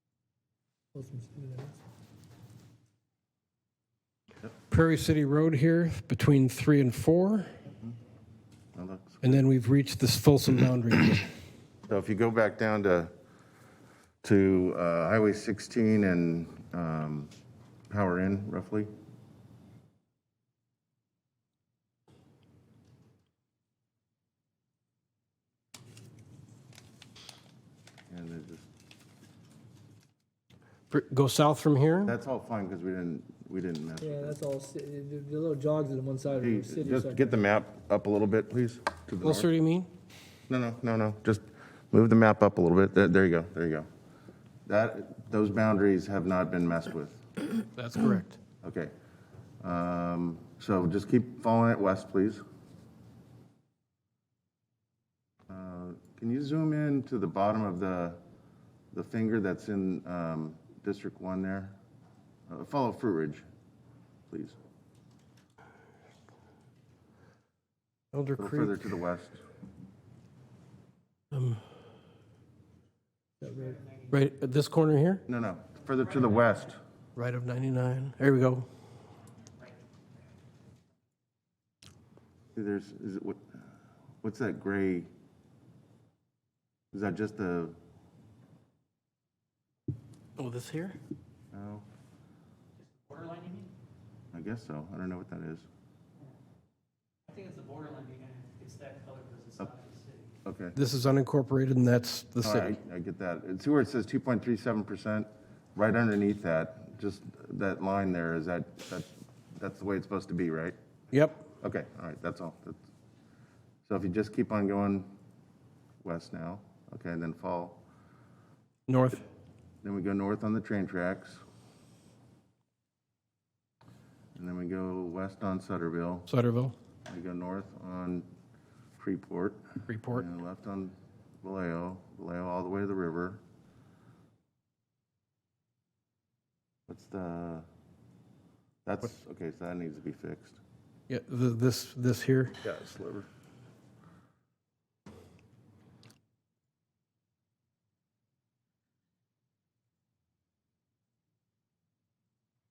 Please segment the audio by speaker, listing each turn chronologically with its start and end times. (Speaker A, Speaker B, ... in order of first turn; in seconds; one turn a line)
Speaker A: 0.9-1.8
Speaker B: 4.7-7.5
Speaker C: 8.7-9.4
Speaker B: 9.2-11.3
Speaker C: 11.9-13.1
Speaker C: 14.2-17.3
Speaker C: 17.9-18.9
Speaker C: 28.1-28.7
Speaker B: 30.9-32.1
Speaker C: 32.0-34.4
Speaker A: 34.0-37.4
Speaker C: 36.4-39.5
Speaker B: 39.2-39.9
Speaker C: 40.5-43.9
Speaker C: 44.7-47.2
Speaker B: 47.8-48.4
Speaker C: 48.6-48.9
Speaker C: 49.6-52.4
Speaker C: 55.5-58.2
Speaker C: 58.9-61.7
Speaker C: 62.5-63.4
Speaker C: 64.3-64.5
Speaker B: 68.1-68.8
Speaker C: 68.4-69.4
Speaker B: 71.3-71.6
Speaker A: 73.4-73.8
Speaker B: 74.1-75.2
Speaker C: 75.3-76.8
Speaker B: 77.2-78.7
Speaker C: 82.5-83.4
Speaker C: 84.2-85.1
Speaker C: 86.9-87.8
Speaker B: 90.4-91.0
Speaker C: 91.5-91.8
Speaker D: 93.1-93.6
Speaker C: 94.3-95.7
Speaker D: 97.3-100.0
Speaker C: 100.4-100.8
Speaker B: 100.7-102.7
Speaker C: 102.4-110.7
Speaker B: 111.1-111.4
Speaker C: 111.6-112.8
Speaker C: 113.9-115.1
Speaker C: 116.0-117.8
Speaker B: 118.9-119.2
Speaker C: 119.8-121.4
Speaker C: 124.3-126.3
Speaker B: 126.3-126.7
Speaker C: 127.0-128.2
Speaker C: 129.0-133.4
Speaker B: 129.9-130.2
Speaker C: 136.9-137.7
Speaker C: 138.8-140.6
Speaker B: 141.1-142.6
Speaker C: 142.6-143.3